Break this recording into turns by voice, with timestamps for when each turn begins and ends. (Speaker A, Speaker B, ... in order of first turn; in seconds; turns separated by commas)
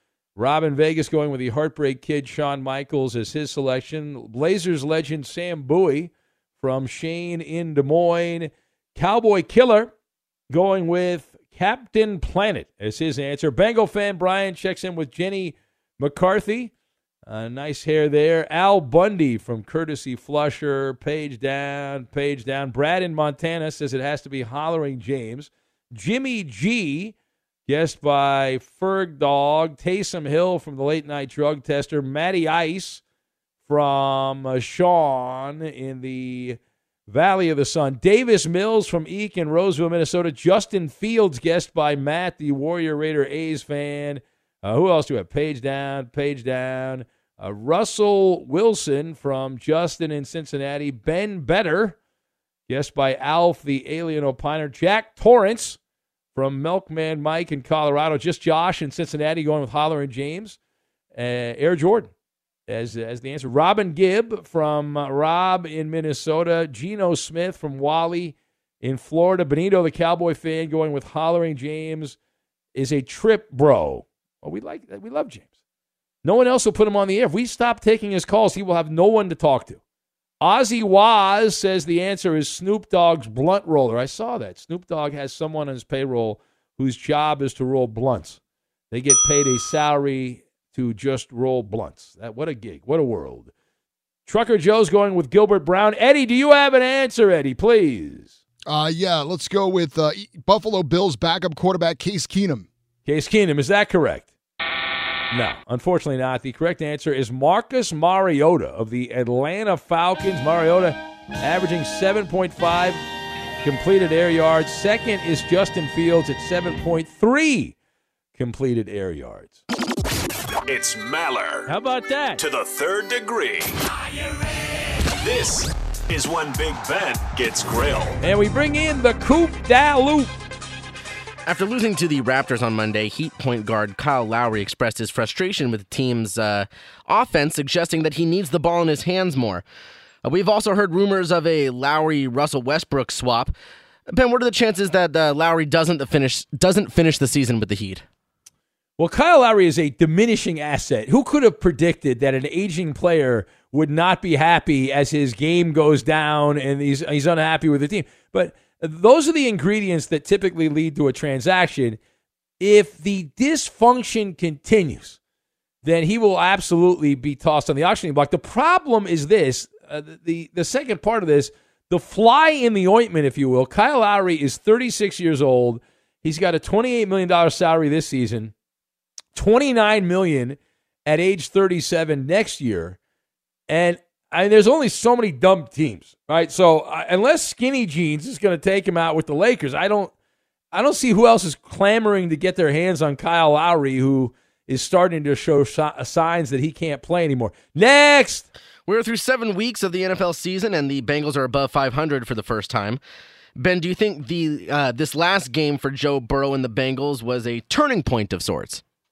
Speaker A: 0.4-9.9, Speaker A: 10.5-16.7, Speaker A: 17.3-27.1, Speaker A: 27.7-33.0, Speaker A: 33.7-52.0, Speaker A: 52.7-55.8, Speaker A: 56.4-60.6, Speaker A: 61.1-62.1, Speaker A: 62.7-72.2, Speaker A: 72.8-75.5, Speaker A: 76.2-79.8, Speaker A: 80.4-88.4, Speaker A: 88.9-93.5, Speaker A: 94.3-98.4, Speaker B: 98.7-102.7, Speaker A: 103.0-104.3, Speaker A: 105.3-113.0, Speaker A: 113.6-117.8, Speaker A: 118.4-119.6, Speaker C: 120.7-121.7, Speaker A: 121.7-122.4, Speaker C: 122.4-124.4, Speaker C: 125.1-128.2, Speaker A: 128.2-130.3, Speaker D: 131.5-139.6, Speaker D: 140.2-143.5, Speaker D: 144.1-148.1, Speaker A: 149.0-162.0, Speaker A: 162.6-165.2, Speaker A: 165.8-178.5, Speaker A: 179.3-183.0, Speaker A: 183.7-190.1, Speaker A: 190.7-198.5, Speaker D: 198.9-203.0, Speaker D: 203.6-208.8